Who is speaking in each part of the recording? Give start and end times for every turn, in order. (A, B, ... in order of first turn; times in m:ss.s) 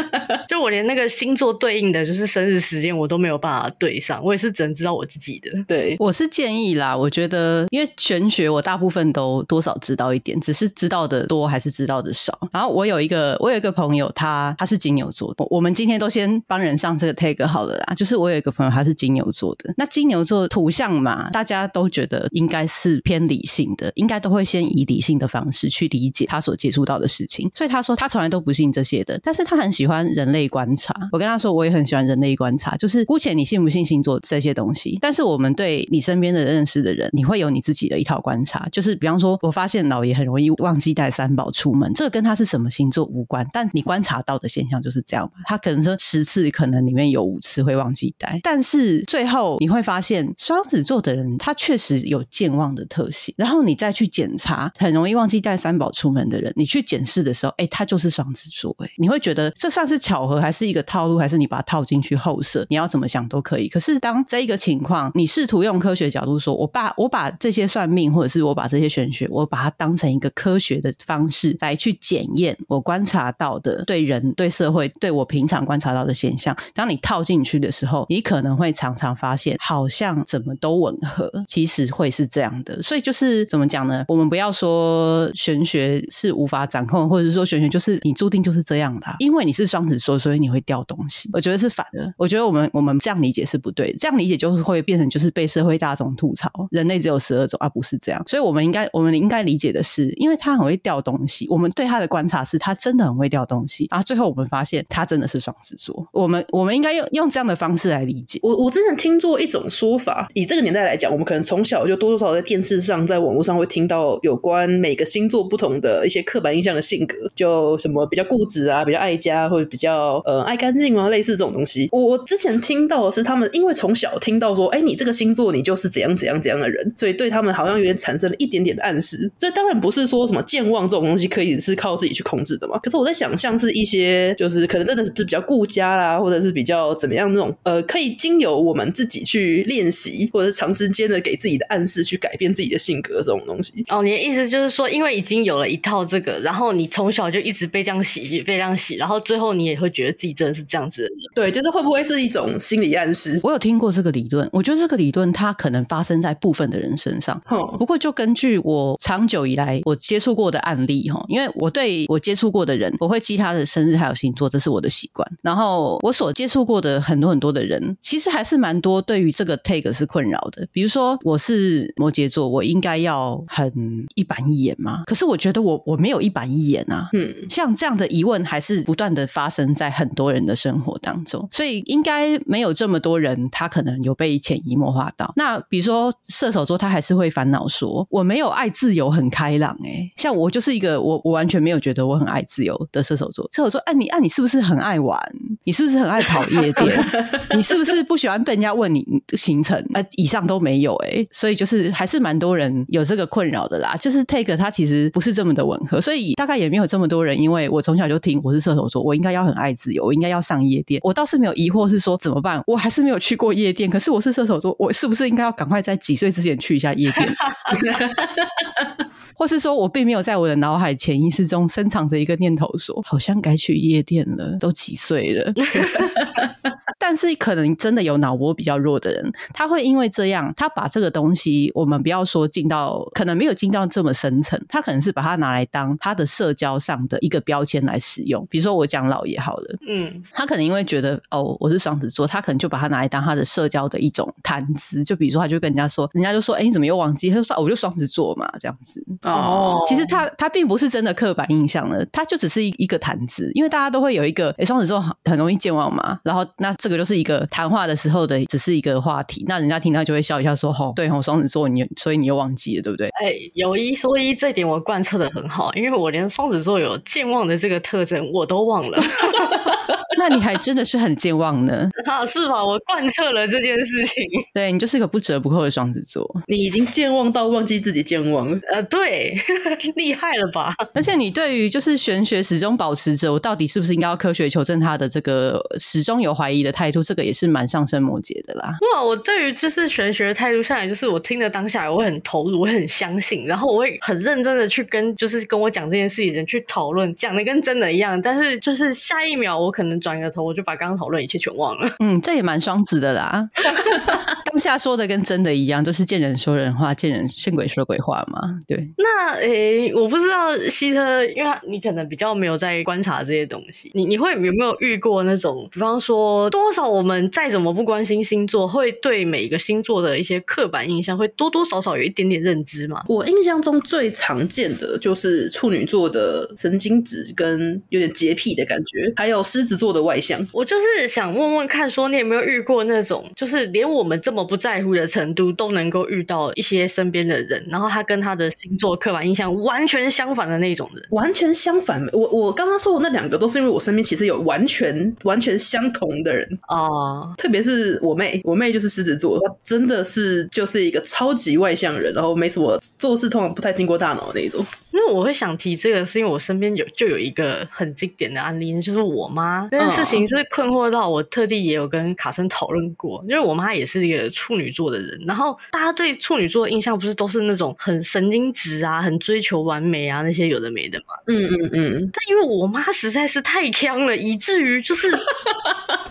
0:00.5-0:05.6 A
0:05.7-0:06.0 B
0:06.0-1:48.4 C
1:48.4-2:23.8 B
2:23.9-2:31.3 A
2:31.3-2:33.4 B
2:33.4-3:37.4 C
2:37.5-2:37.8 B
2:57.1-2:57.5 B
3:16.9-3:17.5 B
3:37.4-3:37.8 A
3:37.7-3:38.4 B
3:39.4-3:45.7 C
3:45.6-3:46.1 A
3:47.0-3:59.8 C
3:59.8-4:00.2 A
4:00.3-4:09.2 C
4:09.2-4:09.8 B
4:09.3-4:10.2 A
4:09.8-4:23.1 C
4:23.1-4:29.7 A
4:30.1-4:31.9 C
4:32.0-4:34.4 A
4:34.5-4:36.4 C
4:36.5-4:38.6 B
4:38.7-4:40.9 A
4:40.9-4:48.8 C
4:48.8-5:02.0 A
5:02.0-5:08.9 C
5:09.0-5:23.1 A
5:23.1-5:30.5 B
5:30.5-5:41.1 A
5:41.1-5:46.6 B
5:46.7-5:47.4 A
5:47.4-5:54.7 B
5:54.9-6:11.1 A
5:59.8-6:00.2 B
6:11.3-6:12.1 B
6:12.1-6:15.3 A